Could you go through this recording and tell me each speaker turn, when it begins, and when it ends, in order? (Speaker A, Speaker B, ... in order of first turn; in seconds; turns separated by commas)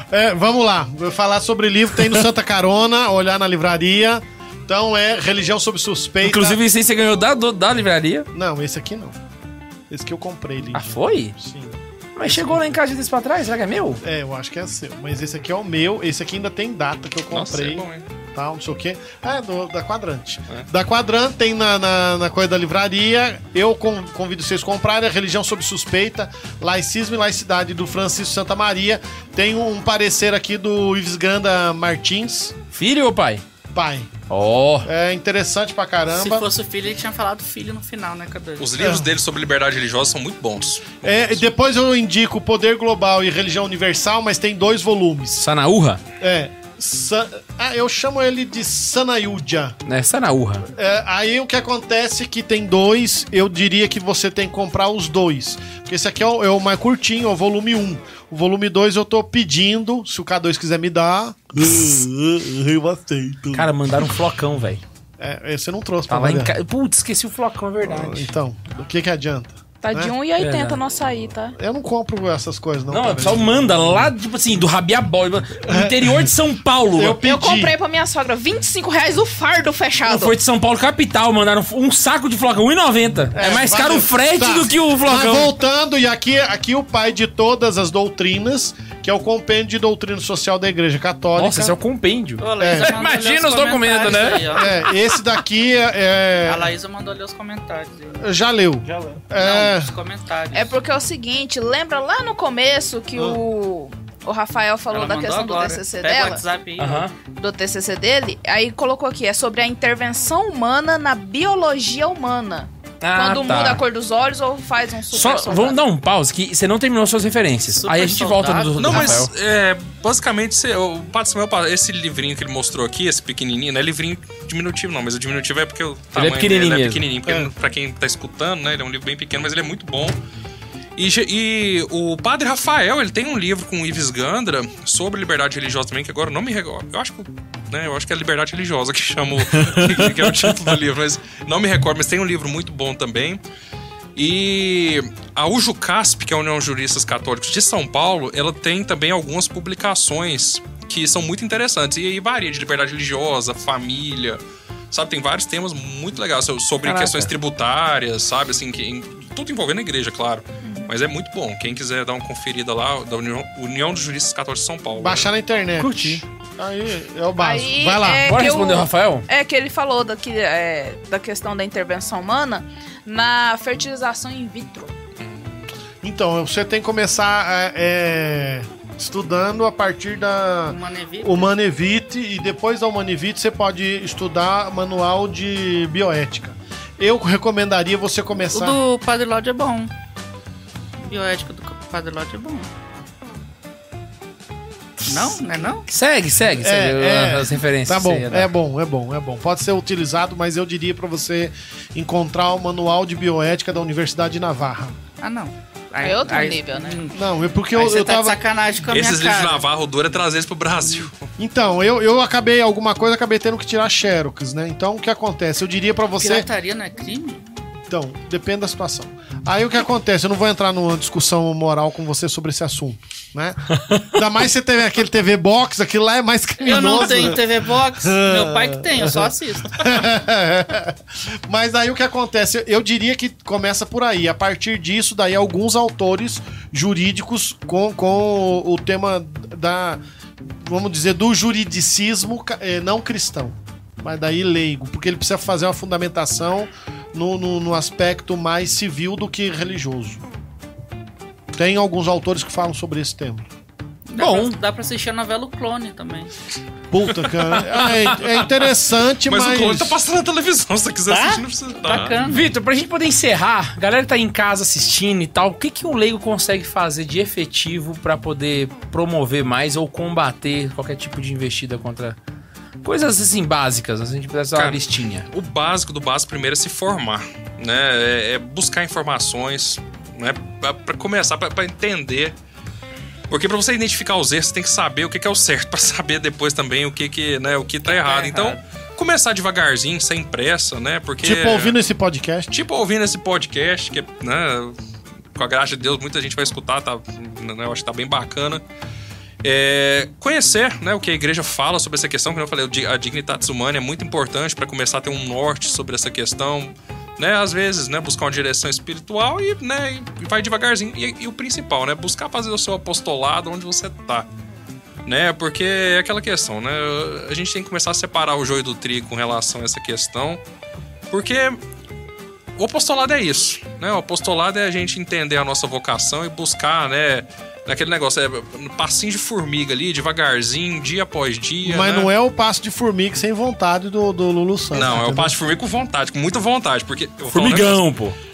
Speaker A: 0.1-6.6, Speaker B: 6.2-8.3, Speaker A: 8.3-9.2, Speaker A: 9.9-12.6, Speaker B: 10.7-11.3, Speaker B: 12.2-14.0, Speaker A: 14.0-32.5, Speaker C: 17.3-18.1, Speaker B: 32.7-33.4, Speaker A: 33.7-34.1, Speaker B: 34.3-34.9, Speaker A: 34.8-36.4, Speaker D: 36.1-38.7, Speaker C: 38.6-41.4, Speaker A: 38.8-39.1, Speaker A: 41.0-45.5, Speaker B: 45.4-46.0, Speaker A: 46.2-49.8, Speaker B: 49.9-50.7, Speaker A: 50.7-63.7, Speaker B: 63.5-64.8, Speaker A: 65.2-66.5, Speaker B: 66.1-68.3, Speaker A: 67.8-70.1, Speaker E: 69.8-71.5, Speaker B: 70.4-70.8, Speaker A: 71.5-73.6, Speaker B: 72.9-77.2, Speaker A: 75.6-76.3, Speaker A: 76.9-77.7, Speaker E: 77.2-80.3, Speaker B: 80.1-85.5, Speaker A: 83.3-91.7, Speaker B: 91.4-95.2, Speaker D: 92.4-94.7, Speaker A: 92.6-92.9, Speaker A: 94.5-96.7, Speaker D: 96.4-98.2, Speaker A: 98.2-99.9, Speaker D: 99.4-100.7, Speaker E: 100.5-106.4, Speaker D: 104.9-107.0, Speaker B: 106.8-107.1, Speaker E: 107.3-115.8, Speaker B: 113.0-113.8, Speaker B: 115.1-119.3, Speaker D: 117.7-119.2, Speaker C: 118.8-130.2, Speaker B: 126.1-127.0, Speaker A: 127.2-127.5, Speaker C: 131.0-143.4, Speaker B: 139.6-140.6, Speaker C: 144.2-165.3, Speaker B: 156.8-157.3, Speaker E: 160.6-160.9, Speaker A: 165.0-168.3, Speaker B: 165.8-166.2, Speaker E: 167.4-174.9, Speaker B: 168.2-169.2, Speaker C: 175.2-175.7, Speaker A: 176.0-188.8, Speaker D: 180.7-181.5, Speaker D: 188.5-189.9, Speaker D: 191.0-192.7, Speaker D: 195.0-195.8, Speaker B: 195.9-198.5, Speaker A: 196.6-204.9, Speaker D: 205.2-207.2, Speaker E: 206.0-207.0, Speaker A: 207.1-208.4, Speaker D: 207.7-209.6, Speaker C: 208.8-211.3, Speaker A: 211.4-216.5, Speaker D: 216.2-217.4, Speaker A: 217.9-250.2, Speaker D: 226.6-229.9, Speaker A: 251.5-253.4, Speaker D: 254.1-256.3, Speaker B: 254.2-254.6, Speaker A: 256.9-260.0, Speaker B: 257.9-258.1, Speaker C: 259.3-262.2, Speaker D: 261.1-262.5, Speaker B: 262.2-272.2, Speaker B: 272.8-275.3, Speaker C: 274.5-282.4, Speaker C: 283.3-291.7, Speaker D: 287.9-288.6, Speaker A: 291.2-292.5, Speaker C: 292.5-294.7, Speaker C: 295.3-298.6, Speaker C: 299.4-314.3, Speaker C: 315.0-320.4, Speaker C: 321.1-321.6, Speaker C: 322.6-332.1, Speaker A: 331.6-335.3, Speaker C: 334.7-337.8, Speaker B: 337.3-338.1